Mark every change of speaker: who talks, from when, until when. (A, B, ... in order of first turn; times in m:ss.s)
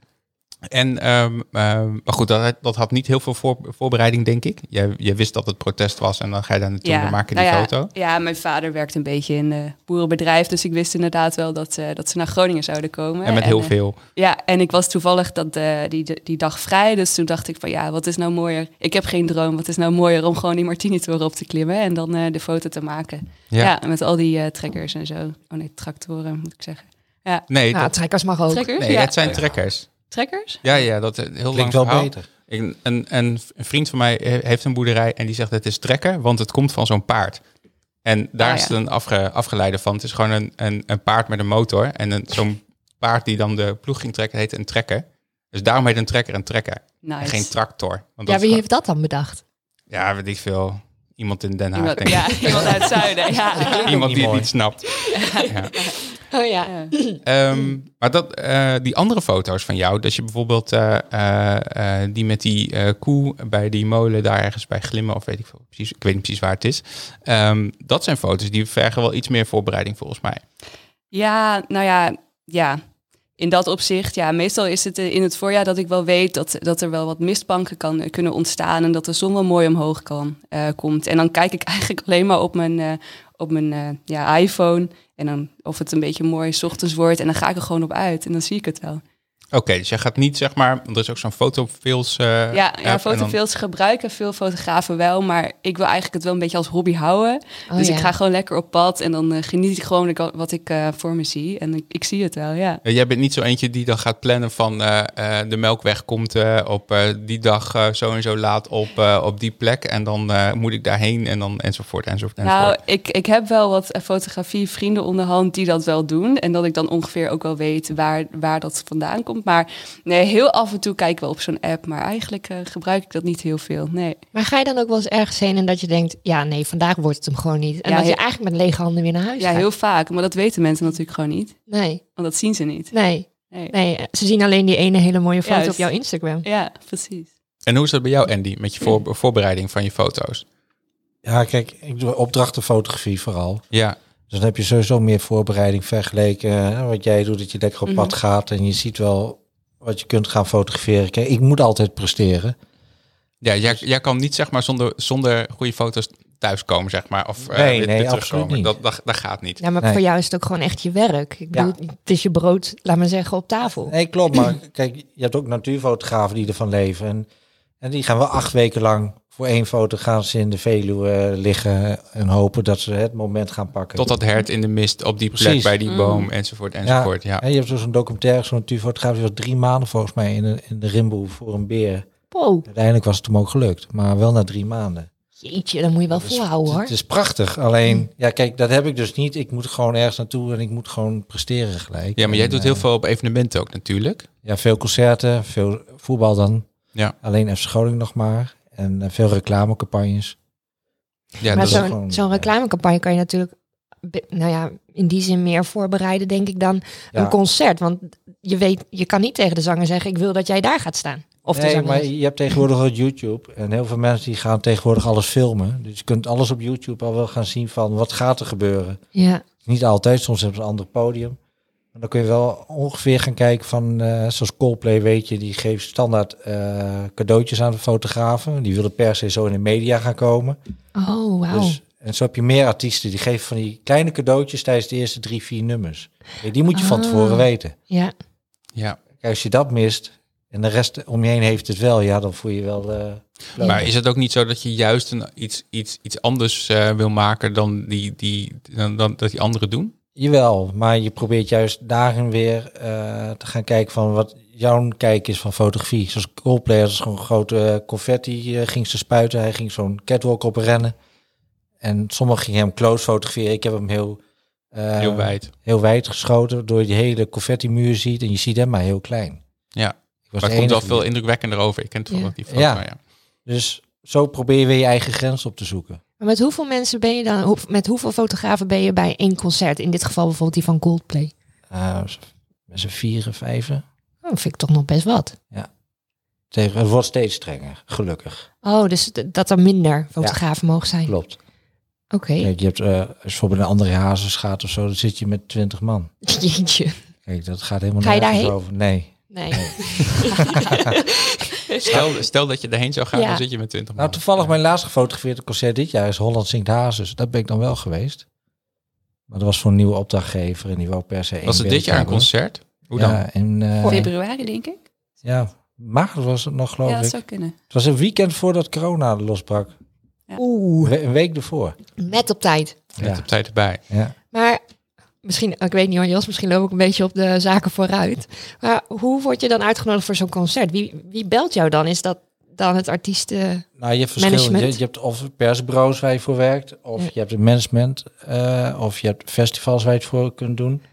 0:00.7-0:07.9 A
0:06.8-0:27.4 B
0:13.2-0:14.0 A
0:27.5-0:27.9 A
0:27.7-0:28.7 C
0:28.5-0:29.3 B
0:28.8-0:29.9 A
0:30.1-0:30.6 B
0:30.6-0:37.4 A
0:31.5-0:32.2 D
0:38.0-0:48.6 A
0:38.4-0:38.7 B
0:47.0-0:47.5 B
0:48.2-0:49.4 C
0:49.9-0:52.8 A
0:51.8-0:53.9 B
0:52.4-0:53.9 C
0:53.8-0:54.9 A
0:53.9-0:54.5 D
0:55.0-0:55.5 C
0:55.1-0:56.0 B
0:55.4-0:55.7 A
0:56.3-0:57.7 C
0:56.6-0:56.9 B
0:57.2-1:10.4 A
1:11.1-1:12.8 B
1:13.4-1:29.0 B
1:29.5-1:33.4 A
1:32.5-1:42.8 B
1:37.7-1:38.1 C
1:42.8-1:52.8 A
1:52.4-2:04.2 B
2:04.3-2:09.6 C
2:07.8-2:08.2 B
2:09.4-2:11.6 B
2:11.7-2:12.0 C
2:12.2-2:12.9 B
2:12.9-2:16.4 C
2:13.5-2:13.7 B
2:15.4-2:15.9 B
2:16.4-2:17.3 B
2:17.6-2:20.4 A
2:21.2-2:23.6 D
2:23.7-2:24.0 A
2:24.3-2:32.6 D
2:27.9-2:28.1 B
2:33.4-2:39.6 A
2:37.4-2:38.7 D
2:39.6-2:43.9 C
2:43.8-2:47.3 D
2:47.8-2:54.1 D
2:53.9-2:57.4 A
2:55.4-2:55.8 D
2:55.9-2:56.3 B
2:56.8-3:02.1 D
3:02.3-3:02.6 C
3:02.6-3:05.1 D
3:05.4-3:06.9 C
3:06.1-3:12.8 D
3:12.2-3:14.3 A
3:14.4-3:16.6 D
3:17.2-3:20.4 D
3:21.4-3:21.8 A
3:21.5-3:22.5 D
3:21.5-3:23.5 C
3:24.0-3:32.1 C
3:31.5-3:39.0 D
3:39.1-3:39.4 C
3:39.6-3:41.4 D
3:41.9-3:50.6 D
3:51.0-3:51.8 C
3:51.5-3:57.7 D
3:56.7-3:58.1 C
3:59.2-4:03.9 D
4:03.6-4:09.9 A
4:03.6-4:03.8 C
4:10.2-4:20.9 D
4:21.8-4:24.2 D
4:24.7-4:29.4 D
4:25.0-4:25.5 A
4:29.7-4:33.0 A
4:30.3-4:31.0 D
4:32.5-4:32.8 D
4:33.4-4:36.0 D
4:36.2-4:41.3 C
4:41.7-4:43.8 D
4:44.2-4:45.3 C
4:46.5-4:48.5 D
4:48.6-4:51.1 C
4:51.0-4:51.4 D
4:52.1-4:52.5 C
4:52.4-4:56.1 D
4:56.2-4:57.0 C
4:57.2-5:00.9 D
4:58.0-4:58.5 C
4:59.3-5:01.9 C
5:01.8-5:04.6 A
5:03.1-5:03.4 C
5:04.0-5:08.2 D
5:09.3-5:12.3 D
5:11.4-5:13.2 A
5:12.9-5:14.1 D
5:13.8-5:14.8 B
5:15.2-5:17.2 D
5:16.8-5:17.5 B
5:17.7-5:19.7 D
5:20.4-5:20.9 C
5:20.8-5:21.8 D
5:22.0-5:22.8 C
5:23.0-5:23.2 D
5:23.0-5:23.8 A
5:23.9-5:24.1 D
5:24.3-5:24.6 C
5:25.2-5:33.6 C
5:33.8-5:40.8 D
5:34.2-5:34.8 C